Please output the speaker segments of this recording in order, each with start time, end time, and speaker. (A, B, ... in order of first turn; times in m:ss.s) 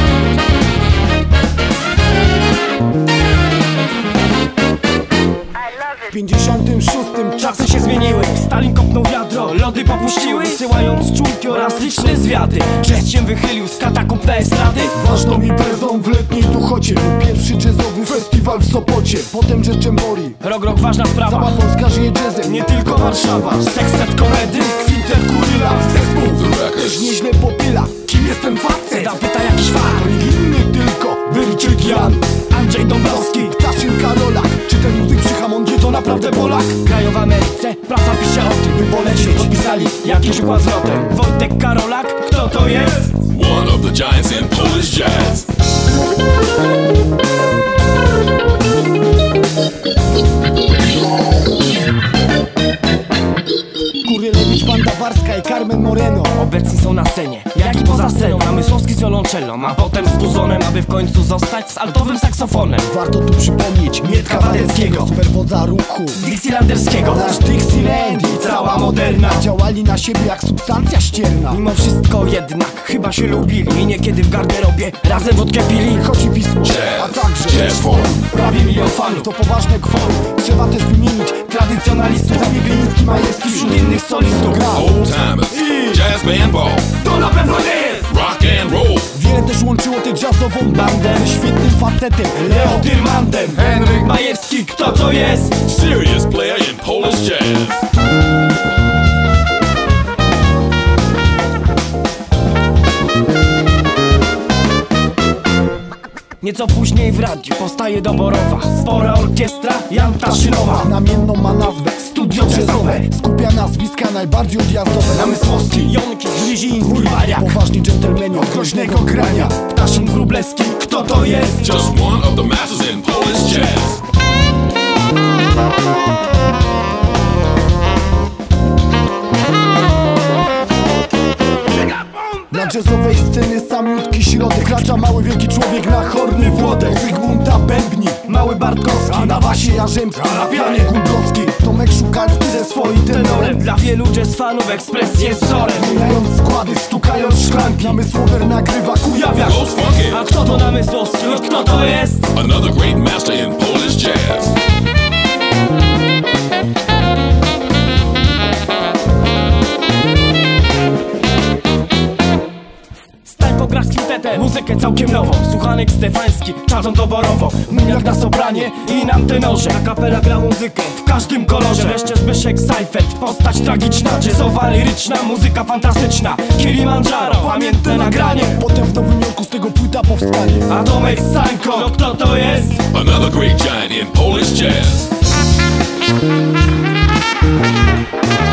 0:06.1-0:08.0 A
0:07.4-0:15.0 B
0:14.9-0:20.4 A
0:20.4-0:21.6 B
0:21.3-0:22.7 A
0:22.4-0:25.1 B
0:24.8-0:29.2 A
0:26.4-0:27.2 C
0:28.9-0:30.1 B
0:29.9-0:32.2 A
0:31.8-0:33.6 B
0:33.0-0:36.7 A
0:36.1-0:43.2 B
0:38.7-0:40.1 A
0:43.3-0:45.5 C
0:54.0-0:56.4 A
0:56.3-1:02.9 B
1:02.8-1:06.2 A
1:04.0-1:05.1 B
1:06.2-1:07.4 B
1:07.0-1:11.6 A
1:08.0-1:09.5 B
1:11.5-1:16.1 B
1:15.9-1:24.9 A
1:16.6-1:18.2 C
1:18.3-1:19.3 B
1:23.4-1:24.7 B
1:24.7-1:26.9 C
1:27.0-1:28.1 B
1:28.1-1:29.1 C
1:29.1-1:32.9 A
1:32.4-1:35.6 B
1:35.6-1:37.8 C
1:46.4-1:50.9 B
1:50.2-1:59.6 A
1:52.1-1:53.0 B
1:55.3-1:57.6 B
1:58.3-2:01.7 B
2:01.6-2:04.0 C
2:12.5-2:18.3 A
2:16.3-2:17.0 B
2:18.2-2:19.8 B
2:19.0-2:23.7 A
2:22.8-2:26.0 B
2:25.7-2:29.5 A
2:27.4-2:28.0 B
2:29.1-2:32.4 B
2:29.4-2:30.2 C
2:30.3-2:30.7 A
2:32.3-2:34.6 C
2:43.2-2:58.6 B
2:57.4-3:00.7 A
3:00.7-3:02.8 B
3:02.9-3:05.1 C